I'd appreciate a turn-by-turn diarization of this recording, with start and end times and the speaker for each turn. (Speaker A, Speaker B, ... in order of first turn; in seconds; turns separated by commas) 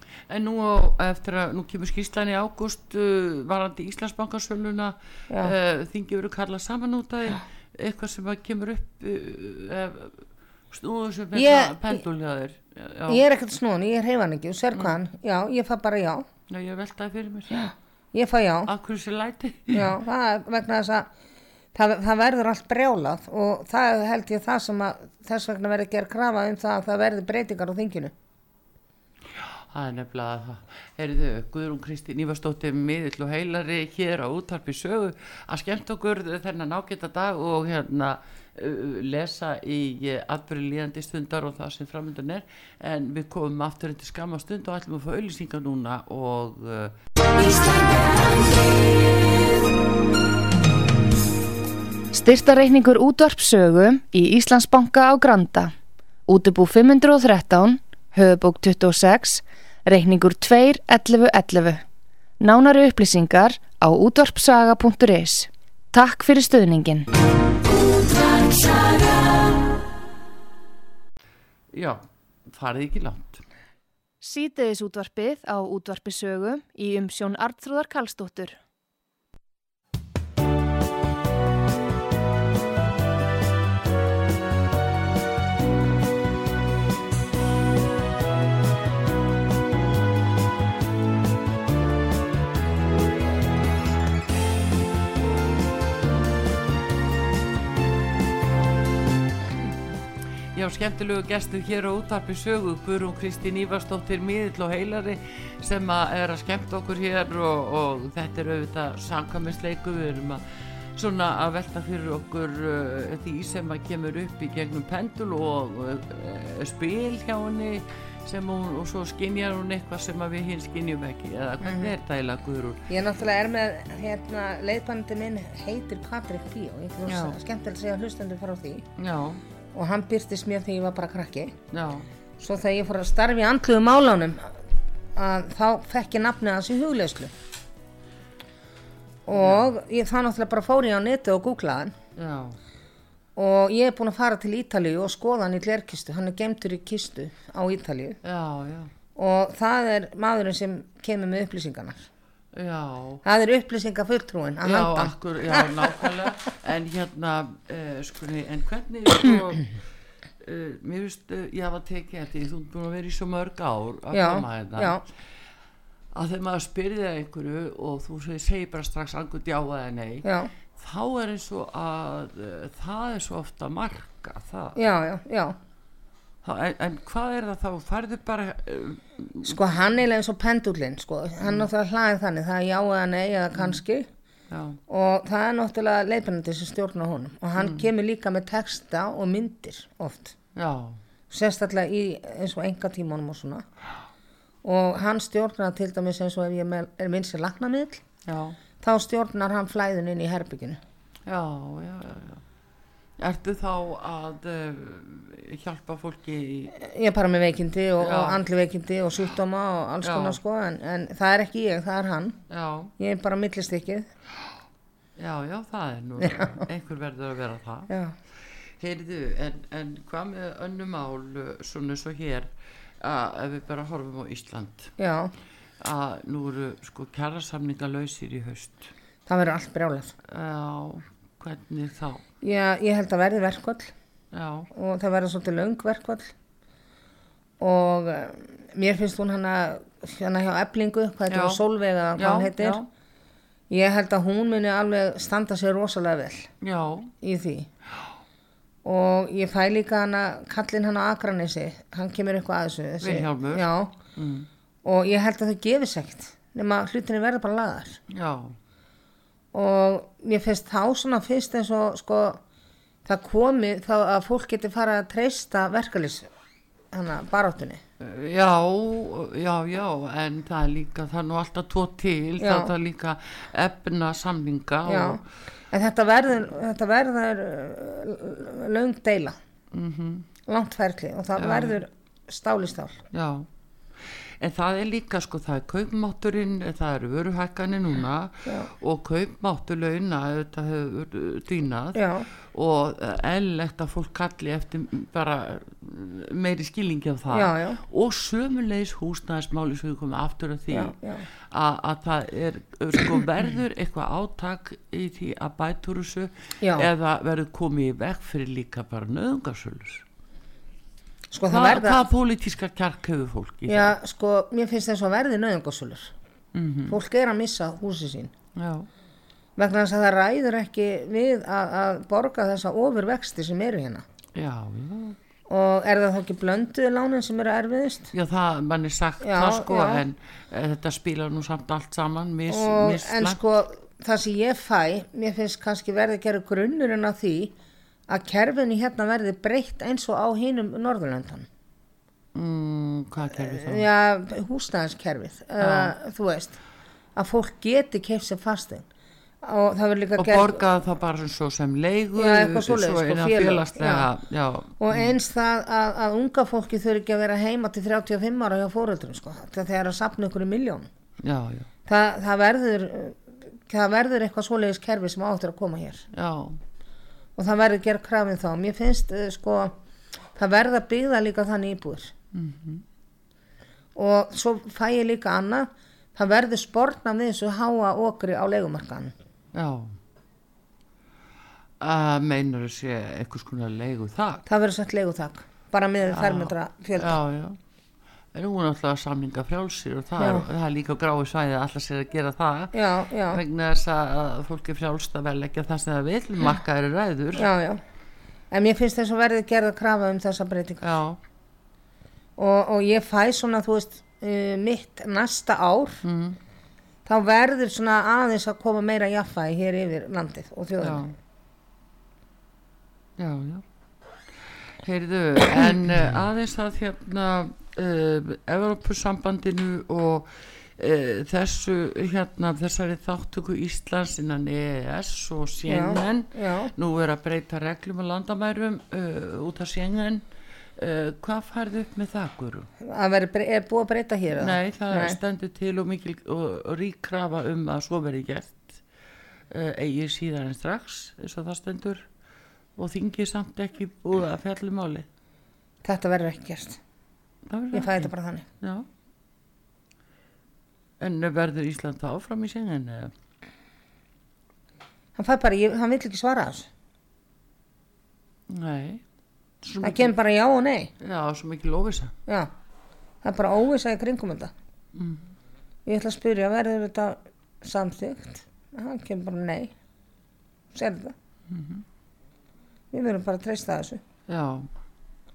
Speaker A: 0.3-13.2, Speaker B: 11.3-12.0, Speaker B: 13.1-16.2, Speaker A: 16.5-17.6, Speaker B: 17.5-18.7, Speaker A: 18.7-20.0, Speaker B: 19.7-21.1, Speaker B: 21.7-28.1, Speaker A: 29.3-47.0, Speaker C: 52.1-55.7, Speaker C: 56.3-61.8, Speaker C: 62.4-67.1, Speaker C: 68.1-69.2, Speaker A: 71.7-73.4, Speaker C: 74.2-78.6, Speaker A: 100.5-110.4, Speaker A: 110.9-122.8, Speaker B: 121.6-121.9, Speaker B: 122.9-128.9, Speaker A: 127.0-127.3, Speaker A: 129.0-129.4, Speaker B: 129.7-131.6, Speaker A: 131.7-132.1, Speaker B: 132.4-134.6, Speaker B: 135.2-137.3, Speaker B: 139.2-141.9, Speaker A: 139.3-139.6, Speaker A: 142.2-142.6, Speaker B: 143.3-148.2, Speaker A: 148.2-148.9, Speaker B: 149.2-152.1, Speaker A: 152.5-153.2, Speaker B: 153.2-155.9, Speaker A: 154.6-159.7, Speaker A: 160.4-165.0, Speaker B: 164.1-165.0, Speaker A: 166.1-170.2, Speaker B: 170.2-170.5, Speaker A: 170.8-174.8, Speaker B: 174.8-175.6, Speaker A: 176.4-179.6, Speaker B: 179.4-184.1, Speaker A: 184.5-184.8, Speaker B: 184.9-190.3, Speaker A: 187.6-187.9, Speaker A: 190.5-191.0, Speaker B: 191.3-193.6, Speaker B: 194.6-198.0, Speaker A: 198.2-198.6, Speaker B: 198.8-200.8, Speaker A: 201.2-202.4, Speaker A: 203.2-206.7, Speaker B: 206.7-212.4, Speaker A: 208.0-208.4, Speaker A: 210.0-210.4, Speaker A: 212.5-212.9, Speaker B: 213.0-214.1, Speaker A: 215.2-217.9, Speaker B: 216.2-216.6, Speaker B: 217.9-218.2, Speaker A: 218.8-224.9, Speaker B: 225.0-225.3, Speaker A: 225.8-228.9, Speaker B: 229.3-230.1, Speaker A: 230.3-232.2, Speaker B: 232.4-233.9, Speaker A: 234.3-234.7, Speaker B: 234.7-236.3, Speaker B: 237.6-242.8, Speaker A: 241.3-241.6, Speaker A: 242.2-242.8, Speaker B: 243.7-246.5, Speaker A: 246.6-247.1, Speaker B: 247.2-247.7, Speaker B: 248.8-253.9, Speaker A: 253.0-254.5, Speaker B: 254.8-258.0, Speaker A: 258.1-258.6, Speaker B: 259.5-262.4, Speaker B: 263.1-266.3, Speaker B: 266.9-267.8, Speaker A: 268.0-275.2, Speaker B: 272.4-272.7, Speaker B: 274.9-279.4, Speaker A: 279.7-280.3, Speaker B: 280.5-283.0, Speaker A: 281.4-281.8, Speaker A: 283.1-283.5, Speaker A: 284.0-300.9, Speaker B: 291.9-292.3, Speaker B: 297.3-297.8, Speaker B: 300.7-301.2, Speaker A: 301.5-310.0, Speaker B: 306.6-306.9, Speaker B: 311.3-312.1, Speaker A: 311.5-313.9, Speaker B: 313.7-316.1, Speaker A: 316.5-317.0, Speaker B: 316.9-318.3, Speaker A: 318.5-318.9, Speaker B: 319.6-324.0, Speaker A: 324.3-325.2, Speaker B: 325.5-328.1, Speaker A: 328.1-333.4, Speaker B: 329.2-330.0, Speaker B: 332.5-337.5, Speaker B: 338.1-341.5, Speaker A: 342.3-343.9, Speaker B: 343.4-346.6, Speaker A: 345.6-345.9, Speaker B: 347.1-348.9, Speaker B: 349.4-350.6, Speaker A: 350.2-355.1, Speaker B: 352.1-354.1, Speaker B: 354.8-360.9, Speaker A: 361.2-361.7, Speaker B: 361.9-366.1, Speaker A: 366.1-366.6, Speaker B: 367.4-369.7, Speaker B: 370.3-372.1, Speaker A: 372.3-372.8, Speaker B: 373.9-379.1, Speaker A: 379.5-379.9, Speaker A: 381.8-384.4, Speaker B: 384.5-387.2, Speaker A: 386.1-387.6, Speaker A: 388.3-392.7, Speaker B: 390.2-390.4, Speaker B: 392.7-393.4, Speaker A: 393.2-397.5, Speaker B: 397.4-397.8, Speaker B: 398.5-400.9, Speaker A: 400.8-401.2, Speaker B: 402.4-406.0, Speaker A: 406.0-406.4, Speaker B: 407.1-411.1, Speaker A: 410.8-411.1, Speaker A: 413.2-413.6, Speaker A: 414.3-430.2, Speaker B: 425.6-426.7, Speaker A: 430.8-432.7, Speaker B: 432.8-435.2, Speaker A: 434.4-438.8, Speaker A: 439.5-442.1, Speaker A: 442.8-445.1, Speaker B: 445.8-446.8, Speaker A: 447.4-448.9, Speaker B: 447.7-448.5, Speaker A: 451.0-453.1, Speaker B: 455.1-456.7, Speaker A: 458.5-459.0, Speaker A: 459.6-460.1, Speaker B: 459.8-460.9, Speaker A: 461.0-462.1, Speaker B: 463.2-464.5, Speaker A: 464.9-465.2, Speaker B: 465.9-469.7, Speaker B: 470.7-471.1, Speaker A: 471.5-471.8, Speaker B: 472.9-474.0, Speaker A: 474.3-474.7